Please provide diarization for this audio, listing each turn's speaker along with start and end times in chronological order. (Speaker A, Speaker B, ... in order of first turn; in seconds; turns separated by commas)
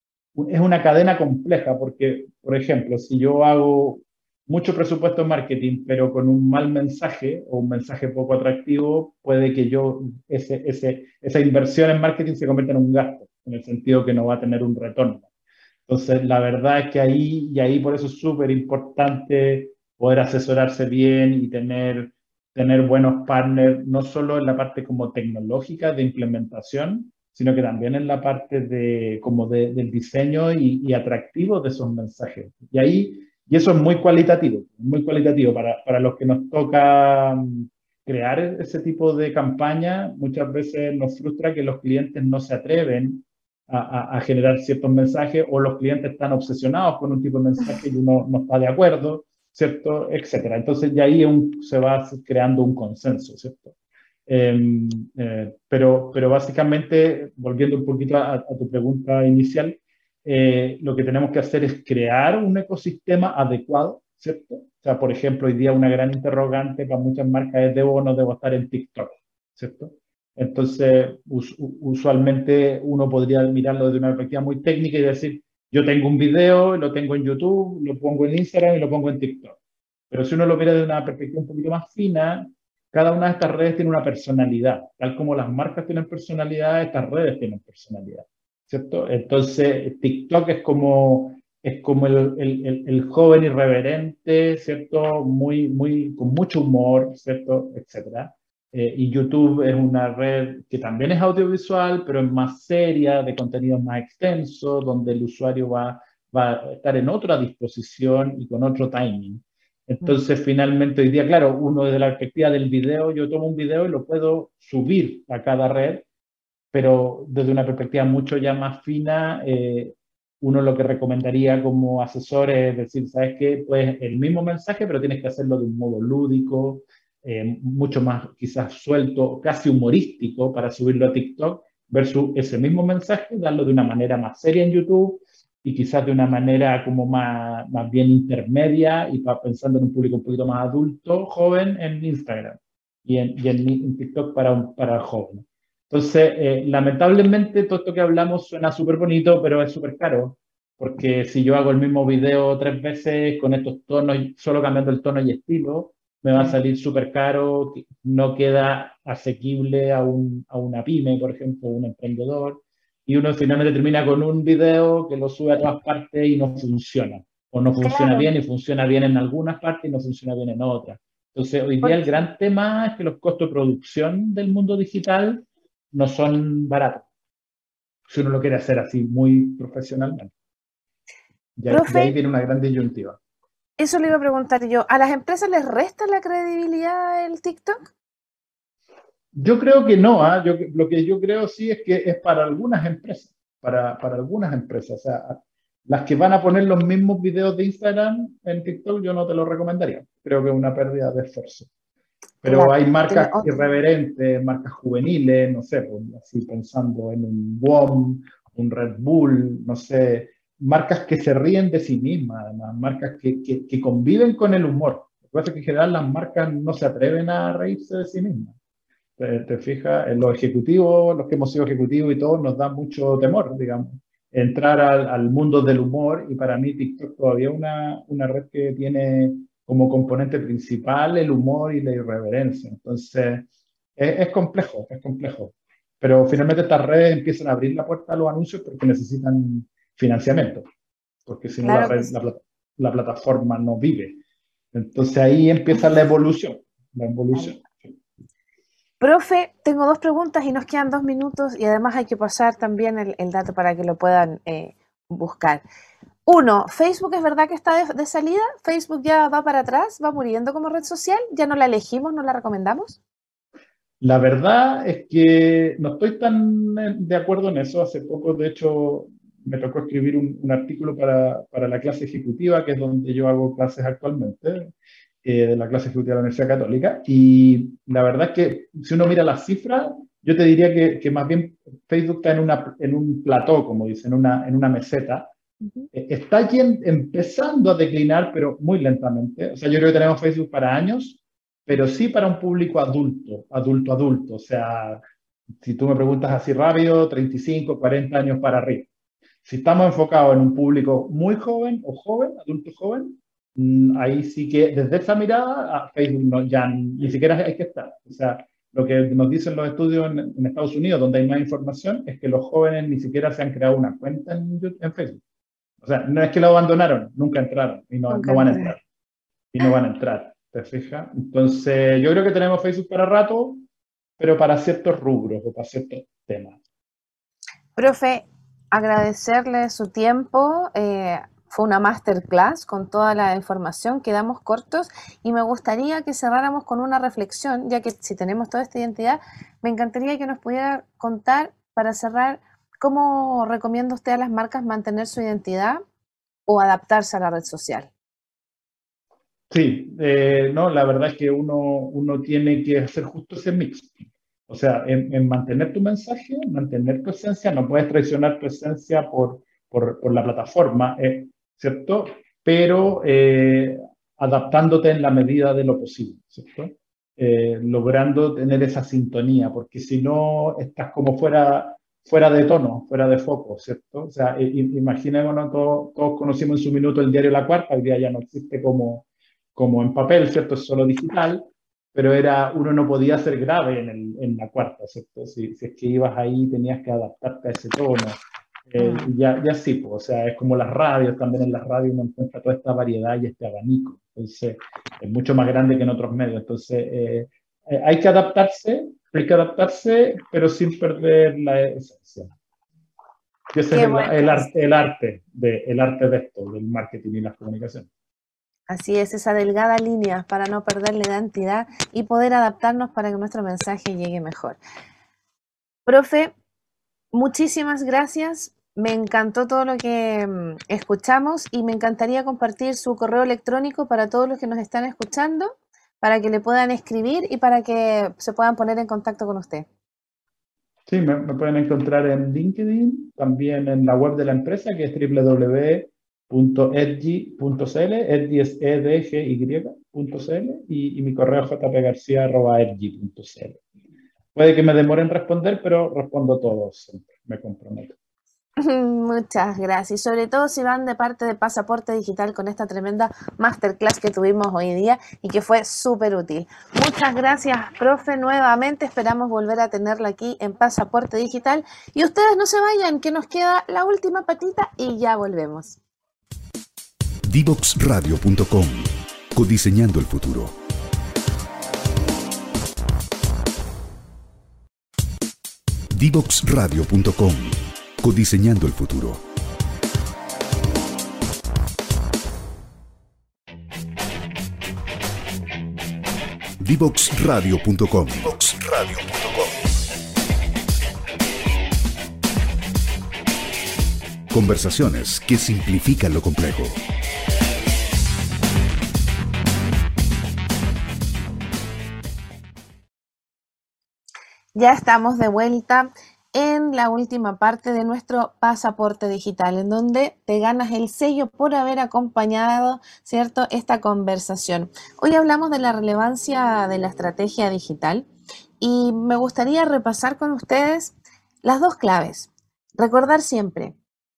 Speaker A: 0.3-15.3, Speaker A: 15.9-53.7, Speaker A: 54.3-79.6, Speaker A: 80.1-116.0, Speaker A: 116.7-177.1, Speaker B: 167.8-168.3, Speaker B: 171.8-172.2, Speaker A: 178.1-180.3, Speaker A: 181.6-183.2, Speaker B: 181.7-182.1, Speaker B: 183.8-187.9, Speaker A: 189.3-201.7, Speaker A: 202.4-218.5, Speaker B: 202.4-203.6, Speaker A: 219.2-240.7, Speaker A: 241.2-244.2, Speaker B: 241.6-242.1, Speaker A: 244.7-248.0, Speaker B: 249.0-255.6, Speaker B: 256.2-263.0, Speaker A: 264.0-274.7, Speaker A: 275.2-285.3, Speaker A: 285.9-295.0, Speaker A: 295.6-298.9, Speaker A: 299.4-315.2, Speaker A: 315.8-318.8, Speaker B: 318.1-318.7, Speaker A: 319.5-323.6, Speaker A: 324.2-326.6, Speaker B: 327.8-345.8, Speaker B: 346.5-347.9, Speaker A: 349.5-353.9, Speaker A: 354.5-402.3, Speaker B: 388.8-389.1, Speaker A: 403.5-407.9, Speaker B: 403.7-404.5, Speaker B: 408.7-414.6, Speaker B: 415.9-416.3, Speaker B: 417.1-429.7, Speaker A: 430.9-443.6, Speaker A: 444.3-448.0, Speaker B: 448.6-465.8, Speaker C: 467.2-470.5, Speaker C: 475.9-479.2, Speaker C: 486.6-489.6, Speaker C: 494.3-496.8, Speaker B: 504.6-518.1, Speaker B: 518.6-523.8